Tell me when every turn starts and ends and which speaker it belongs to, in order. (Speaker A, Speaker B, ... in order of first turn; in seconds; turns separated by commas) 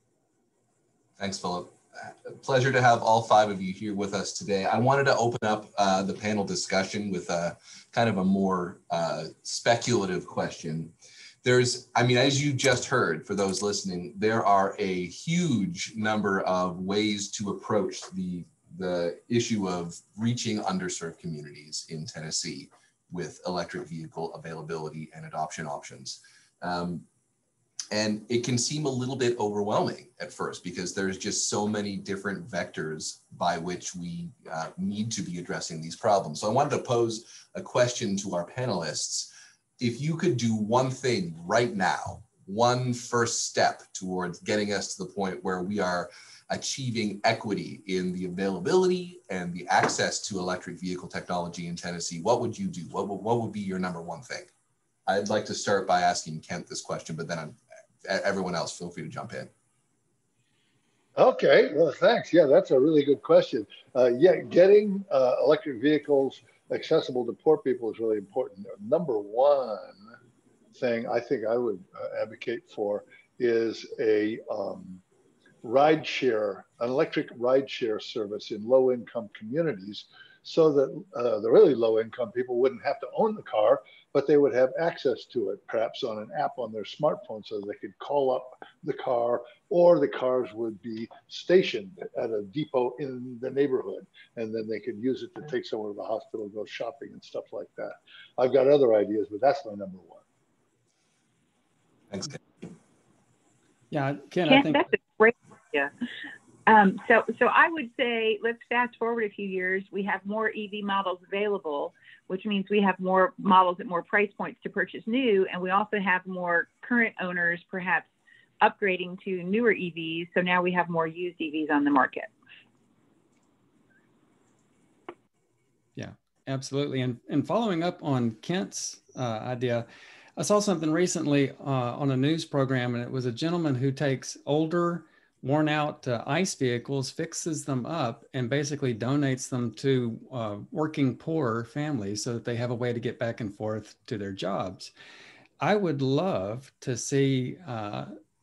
Speaker A: 1.2-27.0, Speaker A: 27.9-54.5, Speaker A: 55.1-59.5, Speaker B: 61.1-70.1, Speaker B: 70.7-75.0, Speaker B: 75.6-100.2, Speaker A: 102.1-102.7, Speaker C: 103.9-104.8, Speaker D: 104.5-105.9, Speaker D: 106.7-118.1, Speaker D: 118.6-122.3, Speaker C: 126.0-144.9, Speaker C: 145.6-148.1